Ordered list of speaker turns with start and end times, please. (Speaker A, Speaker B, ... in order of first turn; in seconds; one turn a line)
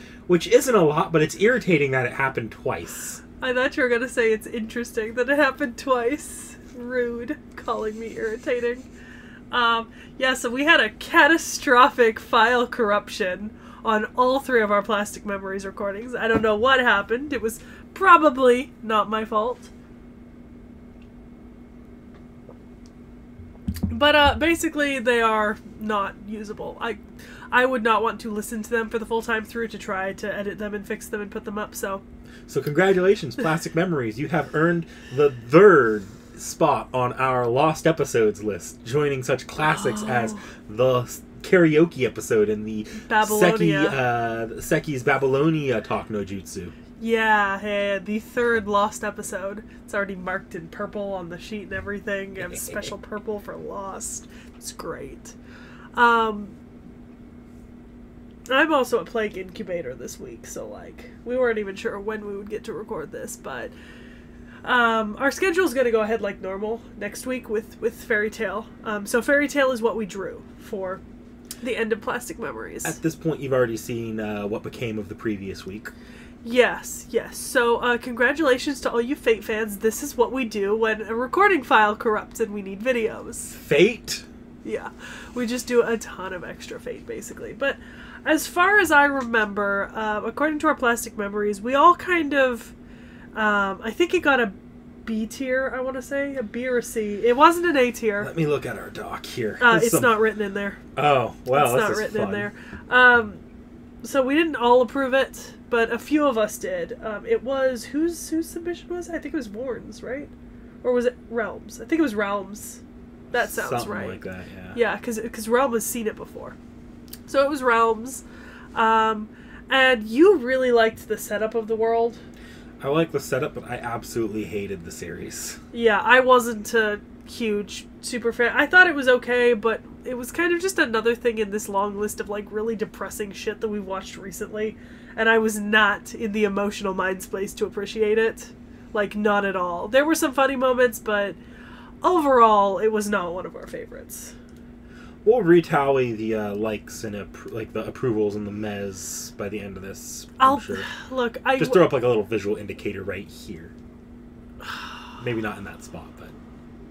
Speaker A: 0.3-3.2
Speaker B: 3.4-8.9
Speaker B: 9.5-19.7
Speaker B: 23.9-27.0
Speaker B: 27.5-32.0
Speaker A: 32.5-46.7
Speaker B: 39.6-40.4
Speaker B: 43.0-44.0
Speaker B: 47.0-55.3
Speaker B: 56.0-56.5
Speaker B: 58.5-63.7
Speaker B: 64.6-71.0
Speaker B: 71.6-73.0
Speaker A: 72.8-75.9
Speaker B: 76.4-83.6
Speaker A: 83.5-84.2
Speaker B: 84.6-92.7
Speaker B: 93.3-98.3
Speaker A: 98.2-100.2
Speaker B: 99.6-100.8
Speaker A: 100.9-102.5
Speaker B: 101.5-103.4
Speaker B: 104.0-112.8
Speaker A: 113.3-114.8
Speaker B: 113.3-114.2
Speaker B: 114.7-116.5
Speaker B: 117.3-118.2
Speaker B: 118.7-122.2
Speaker A: 122.8-125.6
Speaker B: 125.7-141.4
Speaker B: 142.0-144.3
Speaker A: 145.2-150.9
Speaker B: 150.4-151.9
Speaker A: 151.6-153.7
Speaker A: 155.2-156.3